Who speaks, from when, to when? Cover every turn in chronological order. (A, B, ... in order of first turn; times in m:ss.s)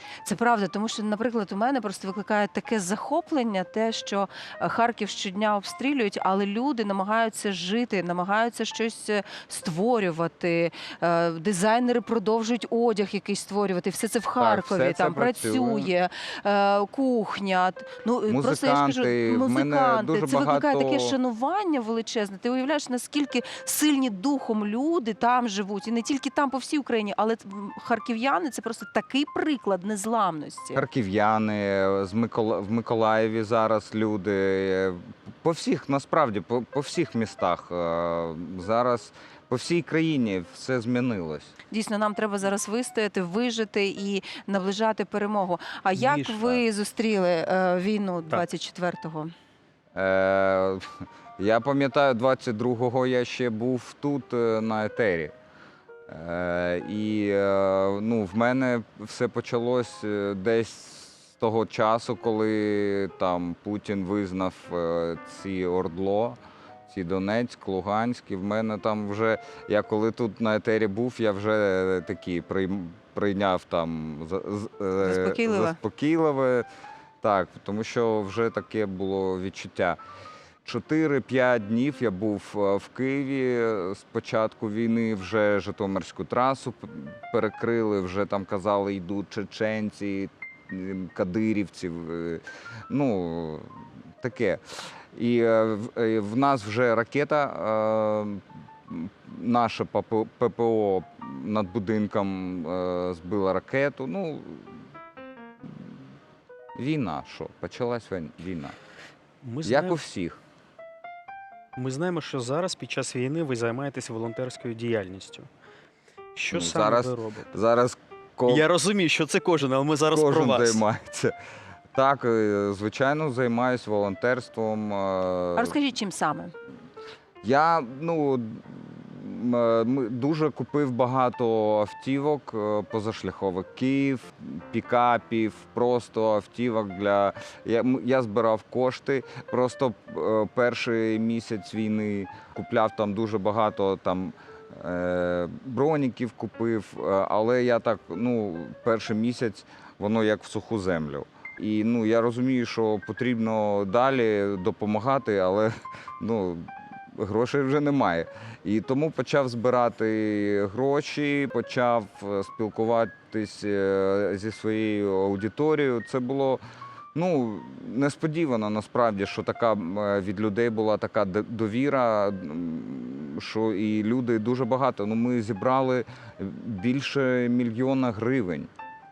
0:00.2-0:30.8 A
0:14.4-0:15.9 B
0:18.3-0:21.2 B
0:30.7-0:41.5 B
0:41.7-0:49.3 A
0:45.9-0:46.5 C
0:49.9-0:50.9 B
0:51.4-0:55.3 B
0:56.1-1:16.7 B
1:15.0-1:15.8 A
1:17.2-1:20.0 B
1:20.6-1:33.7 B
1:34.2-1:34.6 B
1:35.1-1:44.8 B
1:46.8-1:48.8 B
1:49.4-1:50.0 C
1:49.6-1:50.4 B
1:51.8-1:55.5 C
1:56.4-1:57.5 C
1:56.5-1:58.7 B
1:58.5-2:00.8 C
2:00.1-2:01.3 B
2:01.9-2:05.8 B
2:05.6-2:06.5 A
2:07.4-2:46.6 B
2:47.1-2:58.7 B